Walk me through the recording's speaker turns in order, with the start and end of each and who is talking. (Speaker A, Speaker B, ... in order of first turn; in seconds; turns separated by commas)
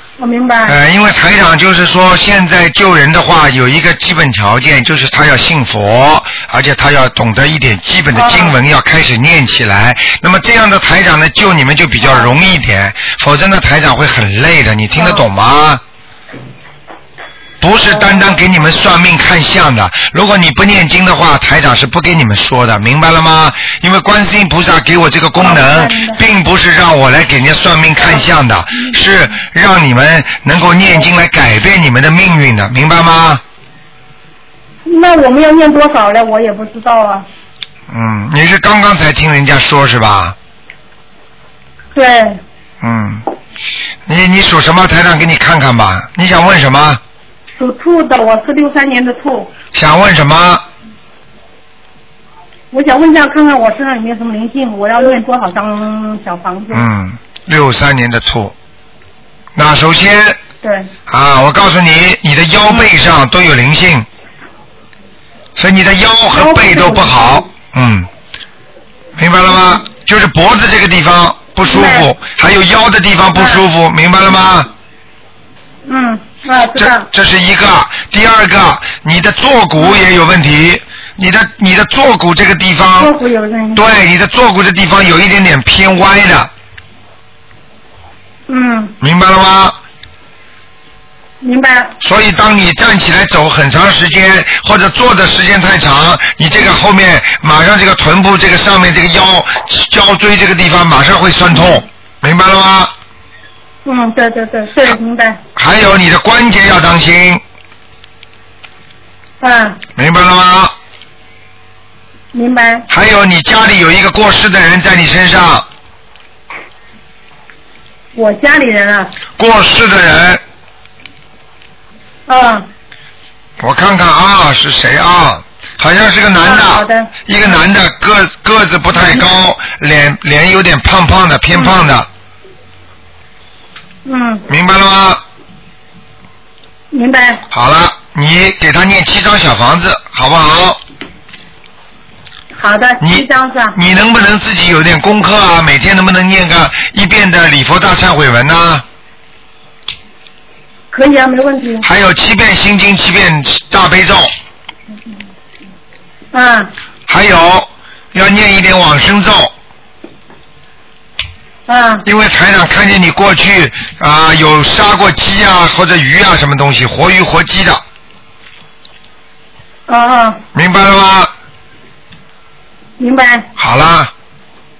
Speaker A: 0.2-0.8, Speaker B: 0.6-15.8, Speaker A: 8.1-8.6, Speaker A: 12.0-12.3, Speaker A: 14.9-15.2, Speaker B: 17.6-33.4, Speaker A: 17.9-18.3, Speaker A: 25.4-26.2, Speaker A: 34.9-37.3, Speaker B: 37.9-40.4, Speaker A: 41.9-42.4, Speaker B: 42.8-43.2, Speaker B: 44.1-47.0, Speaker A: 47.5-49.5, Speaker B: 49.7-50.6, Speaker A: 52.7-56.9, Speaker B: 56.7-58.5, Speaker B: 59.5-60.4, Speaker A: 60.6-60.9, Speaker B: 61.1-64.1, Speaker B: 65.5-68.1, Speaker A: 66.3-67.4, Speaker B: 69.2-74.7, Speaker A: 71.6-72.1, Speaker A: 73.3-73.6, Speaker A: 75.9-77.1, Speaker B: 76.8-83.1, Speaker A: 83.0-83.9, Speaker B: 83.7-86.5, Speaker A: 88.5-89.0, Speaker B: 89.0-89.8, Speaker A: 91.4-91.9, Speaker B: 92.0-102.9, Speaker A: 103.8-105.4, Speaker B: 105.5-107.4, Speaker A: 109.4-109.8, Speaker B: 110.0-110.7, Speaker A: 112.3-112.8, Speaker B: 112.9-115.7, Speaker A: 118.1-119.1, Speaker B: 119.4-120.4, Speaker A: 122.3-122.7, Speaker B: 123.6-132.1, Speaker A: 126.4-127.1, Speaker A: 131.5-131.8, Speaker A: 134.0-134.4, Speaker B: 134.5-135.2, Speaker A: 136.9-137.4, Speaker B: 137.5-140.8, Speaker A: 142.6-143.7, Speaker B: 143.0-148.8, Speaker A: 150.9-151.8, Speaker B: 151.8-154.3, Speaker A: 156.3-156.7, Speaker B: 157.1-159.5, Speaker A: 161.7-162.1, Speaker B: 162.1-167.8, Speaker A: 169.9-170.4, Speaker B: 170.5-171.3, Speaker A: 173.0-173.5, Speaker B: 173.6-174.1